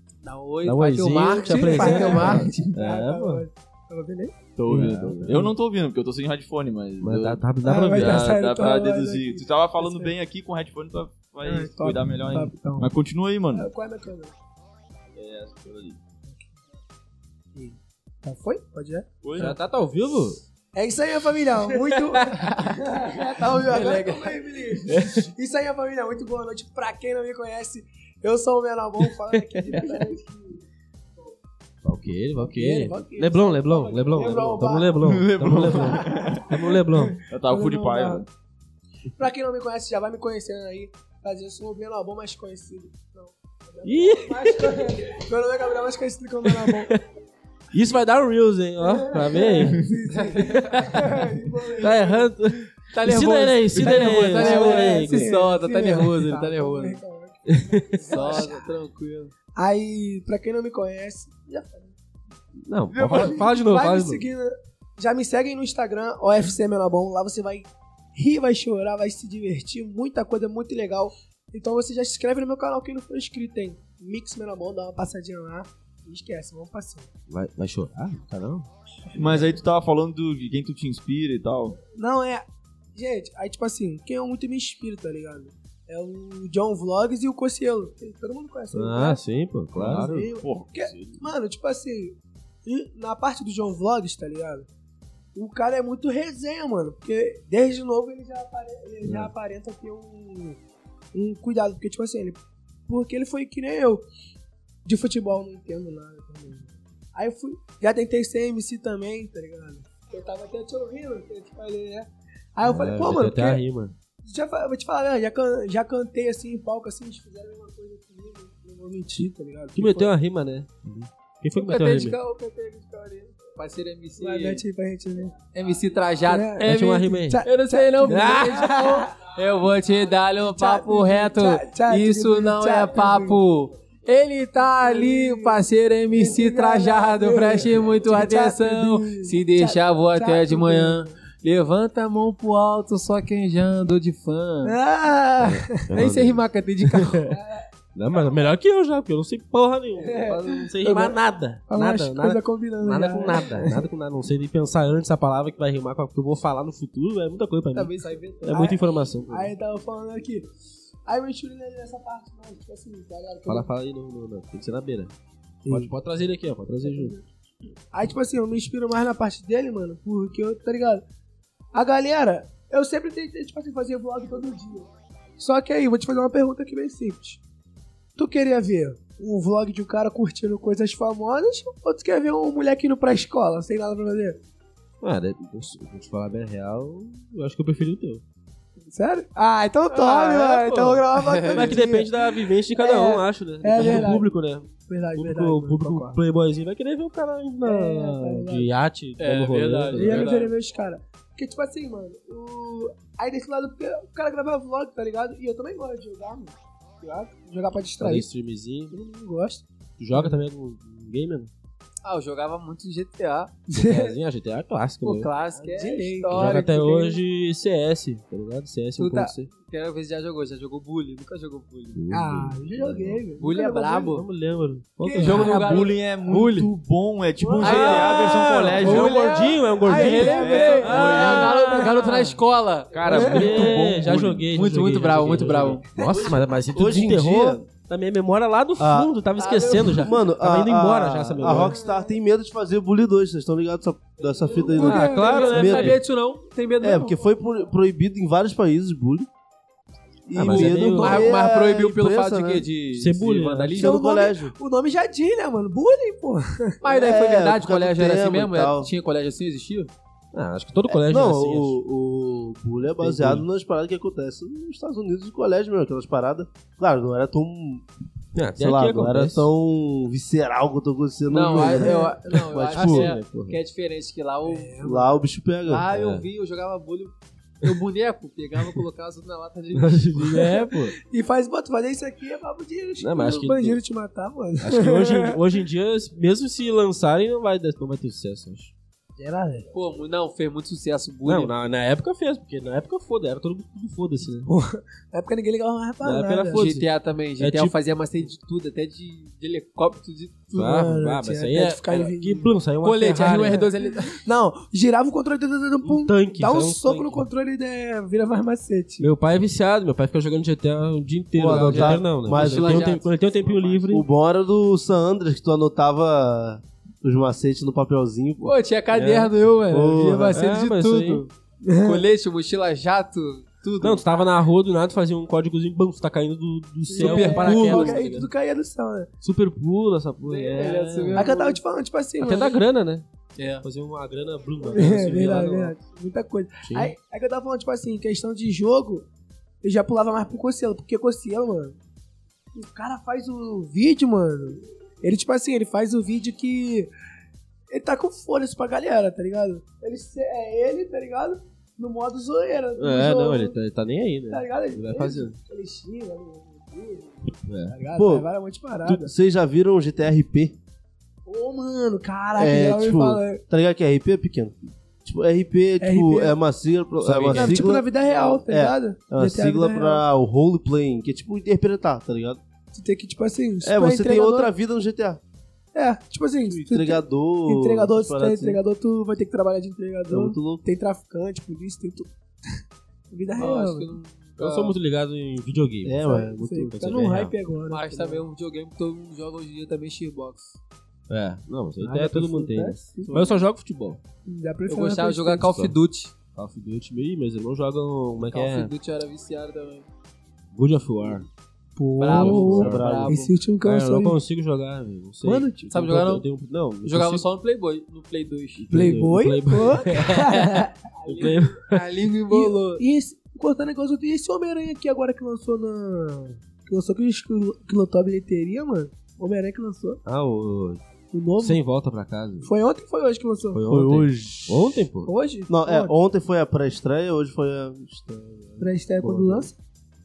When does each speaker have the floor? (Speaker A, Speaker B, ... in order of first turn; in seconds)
Speaker A: 0.2-2.6, 22.2-22.8, 23.7-24.4, 50.1-51.0, 52.9-57.0, 58.1-59.3, 121.5-124.6, 125.5-144.8, 145.9-147.3, 157.7-158.6, 190.2-191.8, 199.2-200.5, 212.0-213.7, 215.0-217.1, 219.0-222.0, 223.4-224.2, 225.2-226.7, 227.6-233.3, 234.5-235.8, 239.4-240.1, 244.7-247.2, 250.4-254.0, 256.8-259.9, 271.3-274.8, 275.7-280.6, 289.7-291.5, 296.5-300.6, 302.8-304.2, 311.5-313.8, 318.4-324.1, 327.0-328.1, 330.3-331.6, 333.4-333.6, 383.4-384.8, 387.7-390.6, 394.7-396.1, 398.3-399.9, 402.0-403.3, 405.7-406.2, 406.9-408.7, 411.1-412.8
Speaker B: 0.7-3.5, 4.7-5.5, 7.0-8.2, 19.4-20.4, 29.3-29.6, 31.8-37.2, 43.8-45.0, 46.4-47.0, 47.7-49.9, 50.5-51.2, 51.8-55.3, 57.5-58.3, 62.6-64.2, 77.3-78.7, 88.7-90.3, 99.0-99.3, 112.6-113.9, 119.8-122.2, 126.6-127.4, 128.1-128.9, 145.4-147.2, 147.9-159.5, 163.5-165.1, 165.7-167.2, 185.0-188.2, 189.9-200.4, 208.0-209.0, 210.0-211.5, 213.7-215.3, 216.3-219.5, 221.9-223.2, 224.1-225.6, 227.6-231.8, 233.1-241.8, 244.8-246.0, 250.3-251.3, 252.9-253.9, 260.3-261.8, 263.0-263.4, 268.4-269.5, 272.7-273.6, 275.9-276.3, 279.8-280.9, 283.0-283.8, 284.6-288.7, 291.3-294.5, 296.0-296.9, 297.4-297.7, 300.5-303.7, 305.8-307.3, 309.0-314.1, 318.9-319.3, 320.3-321.3, 323.8-328.3, 329.2-331.3, 332.2-333.1, 333.6-335.8, 336.6-336.9, 352.8-355.4, 357.5-357.8, 367.0-367.7, 384.4-386.0, 386.8-387.3, 391.1-394.0, 396.4-398.7, 400.5-401.3, 402.1-403.0, 403.6-407.3, 408.6-411.8, 420.1-420.8, 421.4-422.5, 423.5-425.1, 429.0-429.5
Speaker C: 1.4-4.4, 7.6-10.1, 11.4-12.9, 13.5-14.3, 17.6-19.5, 20.7-30.6, 32.4-38.2, 39.2-47.0, 48.8-52.5, 53.8-58.7, 59.5-62.0, 63.0-77.1, 81.8-89.2, 89.8-94.7, 95.3-100.6, 101.1-104.1, 104.8-113.6, 114.2-120.1, 124.2-125.4, 126.3-129.2, 130.4-133.4, 134.7-141.1, 144.6-145.9, 147.3-147.7, 150.0-153.8, 158.5-160.5, 161.1-163.7, 165.7-165.9, 166.8-167.2, 167.9-171.0, 171.7-177.4, 178.2-184.4, 188.9-196.2, 197.6-198.7, 199.9-208.3, 208.9-210.4, 213.7-214.2, 215.6-217.1, 222.1-224.1, 225.0-225.7, 227.4-232.0, 233.1-233.5, 241.5-242.0, 244.6-245.8, 253.8-256.8, 271.6-272.2, 274.5-275.2, 280.6-285.4, 289.2-289.7, 294.5-296.7, 300.5-302.5, 303.2-309.1, 321.6-322.1, 326.9-329.1, 331.1-332.6, 334.6-339.1, 339.6-341.8, 342.5-346.9, 347.7-353.6, 354.3-359.1, 361.3-363.4, 365.8-366.4, 367.3-370.0, 372.7-374.5, 375.7-382.1, 383.1-383.9, 386.0-388.2, 391.8-393.4, 394.2-395.5, 401.8-404.2, 405.2-405.7, 408.7-411.4, 412.3-420.0, 421.1-421.6, 422.4-423.6, 425.1-425.9, 428.6-429.6
Speaker D: 2.2-2.5, 4.6-13.7, 15.2-16.0, 19.2-19.6, 35.0-36.6, 37.3-38.3, 62.9-63.5, 79.2-81.8, 89.8-91.3, 225.1-229.3, 230.2-232.0, 232.9-234.5
Speaker E: 236.7-237.7, 238.8-239.1, 239.9-246.0, 246.8-249.3, 250.3-252.7, 253.8-254.6, 256.9-258.9, 260.9-267.9, 268.6-273.2, 274.8-275.9, 311.3-312.9, 313.9-318.6, 319.7-320.4, 358.0-358.3, 358.9-360.6, 362.4-372.4, 373.6-375.2, 376.5-378.6, 380.1-380.6, 385.9-387.2, 402.2-403.2, 423.7-424.8, 425.5-428.7